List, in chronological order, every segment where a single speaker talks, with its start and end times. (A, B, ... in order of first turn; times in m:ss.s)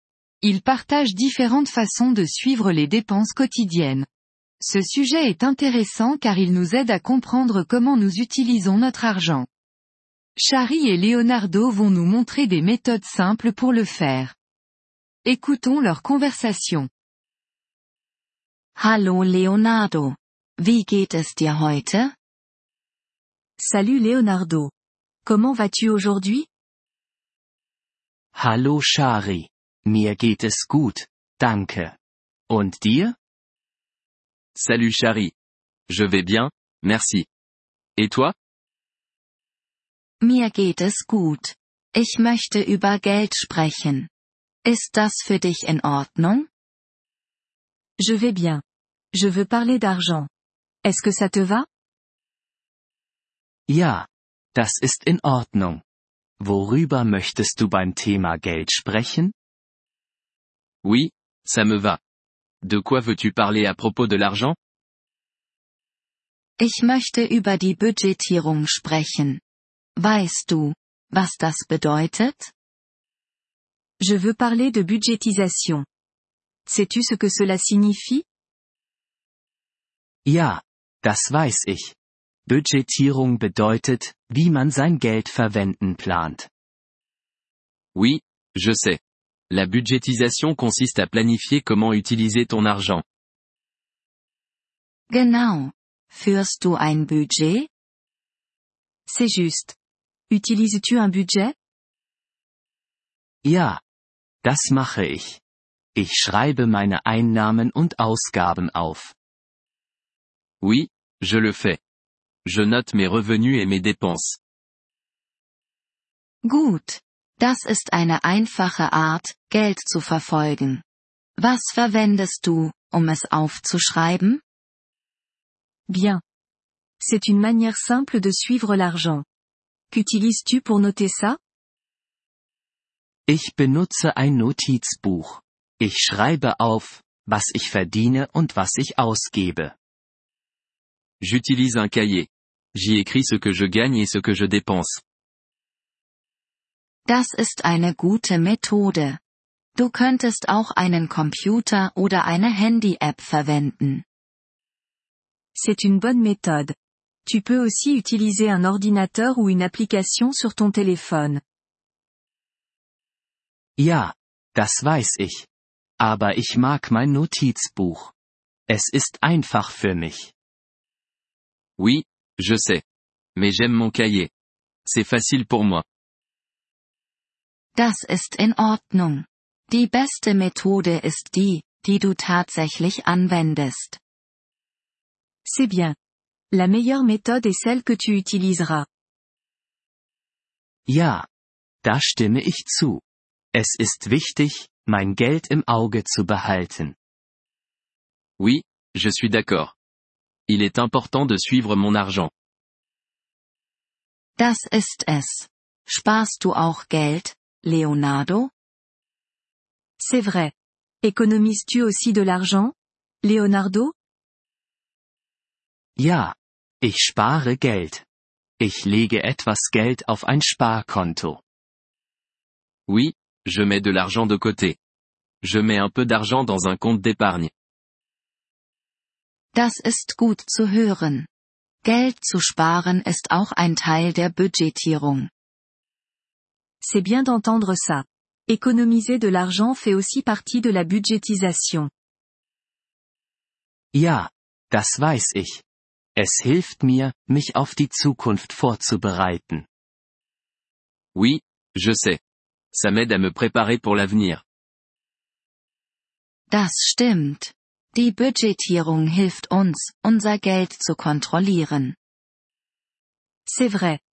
0:00.4-0:04.1 A
0:04.6-0:09.5 A
0:10.4-0:14.4 A
0:15.2-0:16.9 A
0:18.8-0:22.1 B
0:23.6-0:24.7 C
0:25.2-0:26.5 C
0:28.4-0:32.0 D
0:32.5-0:33.2 D
0:34.6-0:35.3 E
0:35.9-0:37.3 E
0:38.0-0:38.3 E
0:40.2-0:44.1 B
0:44.6-0:46.5 B
0:48.0-0:48.6 C
0:49.1-0:50.3 C
0:50.8-0:51.7 C
0:53.7-0:55.8 D
0:56.4-0:59.3 D
1:00.8-1:02.0 E
1:02.6-1:04.6 E
1:06.6-1:09.4 B
1:10.0-1:12.5 B
1:14.0-1:15.9 C
1:16.7-1:18.2 C
1:20.2-1:22.0 D
1:22.5-1:26.5 D
1:28.0-1:29.0 E
1:29.5-1:33.0 E
1:35.1-1:37.7 B
1:39.1-1:39.8 C
1:40.3-1:41.5 C
1:43.4-1:43.8 D
1:44.4-1:45.4 D
1:46.0-1:49.2 D
1:50.6-1:51.8 E
1:52.4-1:54.4 E
1:56.4-2:00.8 B
2:01.4-2:04.4 B
2:05.9-2:06.2 C
2:07.0-2:09.2 C
2:09.9-2:11.4 C
2:13.3-2:19.8 D
2:21.2-2:25.0 E
2:27.1-2:29.2 B
2:29.8-2:34.0 B
2:35.6-2:41.4 C
2:43.8-2:45.5 D
2:46.0-2:48.1 D
2:48.7-2:50.3 D
2:51.8-2:52.8 E
2:53.4-2:54.3 E
2:54.9-2:55.8 E
2:57.8-3:04.0 B
3:05.4-3:06.0 C
3:06.5-3:08.9 C
3:10.9-3:11.3 D
3:11.8-3:13.0 D
3:13.5-3:17.0 D
3:18.4-3:19.7 E
3:20.5-3:22.3 E
3:24.4-3:28.5 B
3:30.0-3:33.9 C
3:36.0-3:38.0 D
3:38.6-3:41.4 D
3:42.9-3:44.8 E
3:45.4-3:47.5 E
3:49.5-3:51.3 B
3:51.8-3:55.3 B
3:56.8-4:01.9 C
4:03.9-4:05.6 D
4:06.2-4:09.7 D
4:11.2-4:12.2 E
4:12.7-4:14.4 E
4:16.5-4:22.0 B
4:23.5-4:24.0 C